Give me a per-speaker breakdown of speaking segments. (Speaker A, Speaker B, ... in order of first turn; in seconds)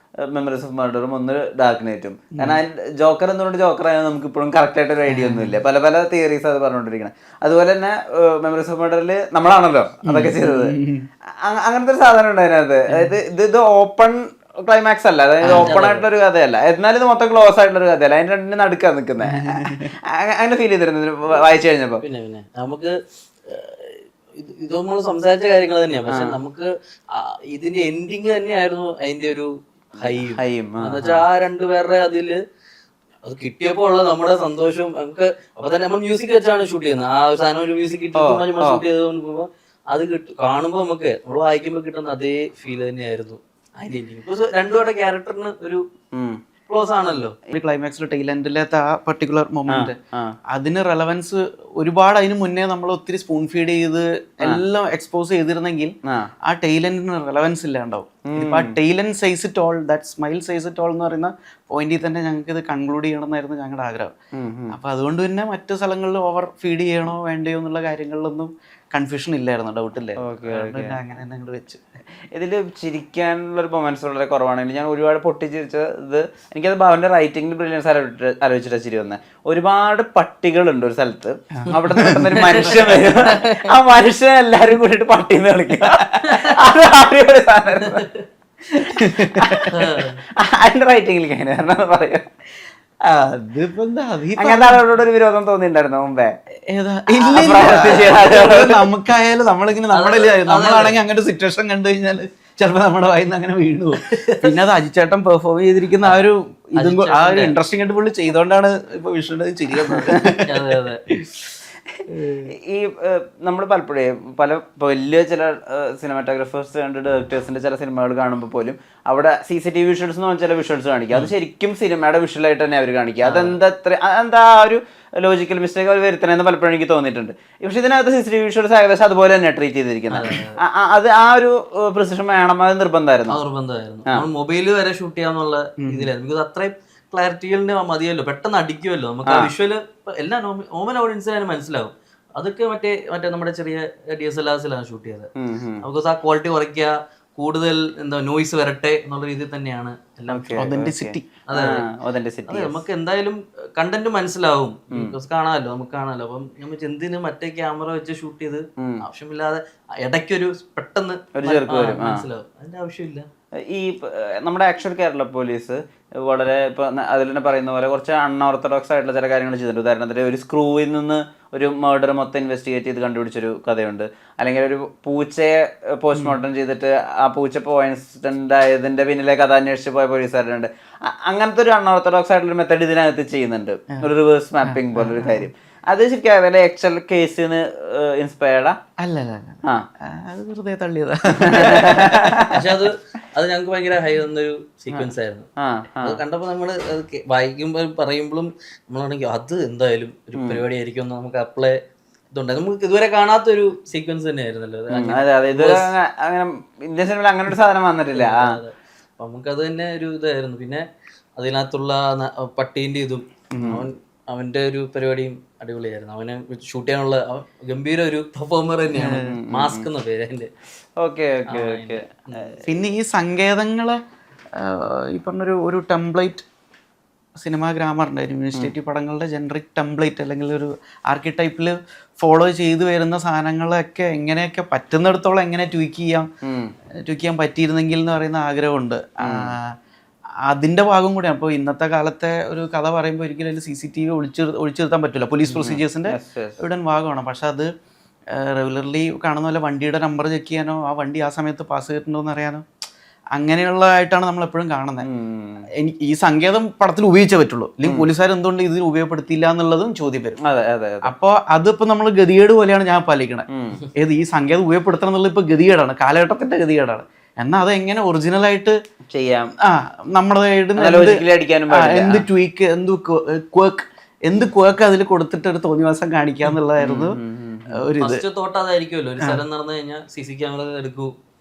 Speaker A: 0.3-10.7, 11.4-22.0, 26.1-26.4, 30.2-31.2, 38.1-38.8, 46.1-46.4, 49.7-50.3, 58.3-58.8, 64.3-64.8, 70.2-71.0, 72.3-88.1, 88.8-92.3, 94.4-96.3, 97.2-98.8, 112.6-133.4, 139.2-139.5, 145.4-145.8, 150.3-152.8, 161.4-162.2, 163.6-188.8, 191.5-192.6, 194.9-196.2, 200.3-200.6, 204.9-208.6, 213.5-213.8, 219.0-219.9, 221.0-222.6, 236.4-236.7, 239.2-239.5, 245.5-246.6, 255.0-255.6, 260.4-261.1, 263.5-263.8, 269.1-269.5, 270.8-272.2, 276.8-277.8
Speaker B: 2.3-2.6, 5.1-5.6, 10.0-11.1, 15.5-15.8, 19.3-19.9, 47.5-50.0, 50.5-55.9, 56.5-64.1, 64.7-71.8, 81.5-83.0, 88.9-89.7, 93.0-94.8, 96.7-111.4, 135.8-136.1, 150.6-151.2, 184.6-185.5, 189.0-192.5, 218.9-219.3, 222.7-224.0, 224.6-226.4, 227.4-236.3, 237.0-239.7, 240.5-247.7, 248.3-252.6, 253.3-255.1, 255.8-260.4, 261.1-268.8, 269.6-277.2, 277.7-278.2
Speaker C: 15.5-16.1, 22.0-32.4, 33.2-45.8, 46.7-47.4, 82.6-83.7, 86.2-86.6, 87.7-88.2, 89.7-90.2, 99.9-101.0, 104.1-104.4, 106.8-107.5, 109.9-111.0, 112.1-112.5, 123.2-123.6, 130.1-130.6, 133.3-145.3, 145.8-150.6, 151.5-151.8, 152.5-163.3, 192.5-195.5, 196.0-201.8, 202.3-205.9, 208.1-210.8, 211.4-220.5, 221.5-222.6, 278.0-281.1